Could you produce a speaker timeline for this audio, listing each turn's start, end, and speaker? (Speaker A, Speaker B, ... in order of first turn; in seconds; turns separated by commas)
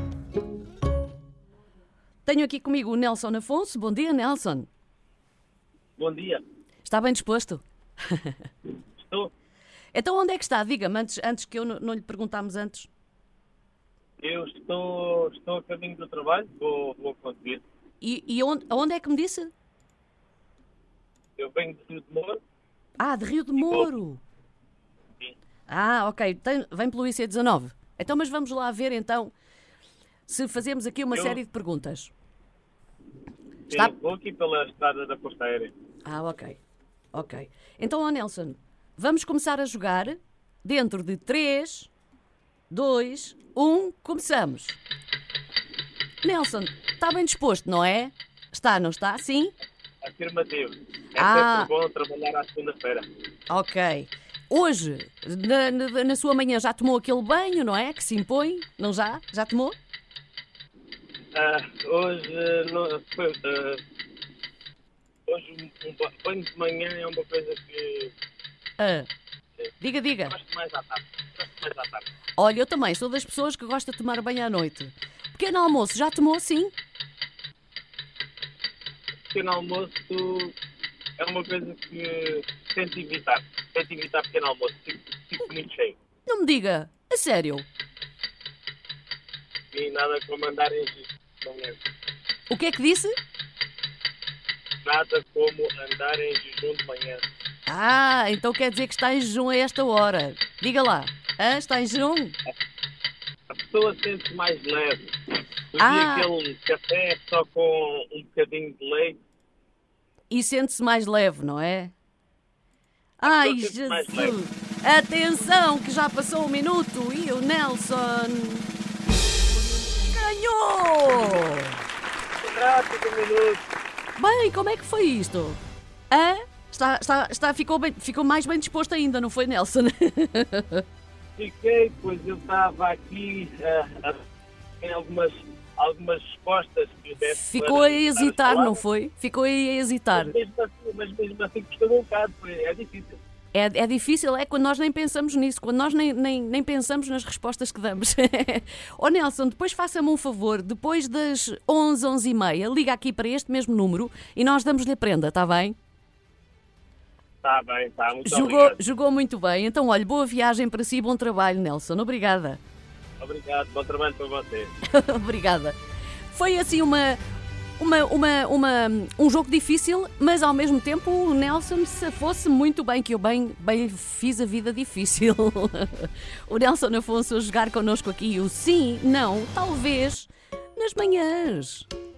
Speaker A: 2.2-4.7, Speaker B: 6.0-6.4, Speaker A: 6.8-8.3, Speaker B: 9.0-9.3, Speaker A: 9.9-12.9, Speaker B: 14.2-17.6, Speaker A: 18.0-19.5, Speaker B: 21.4-22.4, Speaker A: 23.0-24.2, Speaker B: 23.6-23.9, Speaker A: 25.7-29.3, Speaker A: 30.3-32.1, Speaker B: 31.1-31.4, Speaker B: 33.7-35.7, Speaker A: 36.0-36.6, Speaker A: 37.1-41.9, Speaker A: 42.7-44.8, Speaker A: 46.2-49.5, Speaker B: 50.0-53.1, Speaker A: 51.2-51.7, Speaker A: 53.5-59.8, Speaker B: 61.3-63.8, Speaker B: 65.3-68.1, Speaker A: 68.8-69.1, Speaker A: 69.8-70.3, Speaker B: 70.2-72.0, Speaker A: 72.4-76.7, Speaker B: 79.3-80.5, Speaker B: 81.2-86.0, Speaker A: 86.3-87.7, Speaker B: 89.7-91.8, Speaker A: 92.5-93.1, Speaker B: 94.8-97.2, Speaker A: 97.7-102.4, Speaker B: 103.5-105.1, Speaker B: 105.7-109.2, Speaker A: 105.8-106.3, Speaker A: 110.3-111.9, Speaker A: 113.2-118.7, Speaker B: 113.2-114.3, Speaker A: 120.0-121.8, Speaker B: 122.4-123.6, Speaker A: 124.2-125.6, Speaker A: 126.1-130.8, Speaker B: 131.4-134.2, Speaker B: 134.8-138.8, Speaker A: 137.3-140.3, Speaker B: 140.1-143.2, Speaker A: 143.5-155.8, Speaker B: 157.4-158.8, Speaker A: 158.2-162.6, Speaker B: 163.2-164.7, Speaker A: 164.8-165.8, Speaker A: 166.3-167.2, Speaker A: 167.8-181.9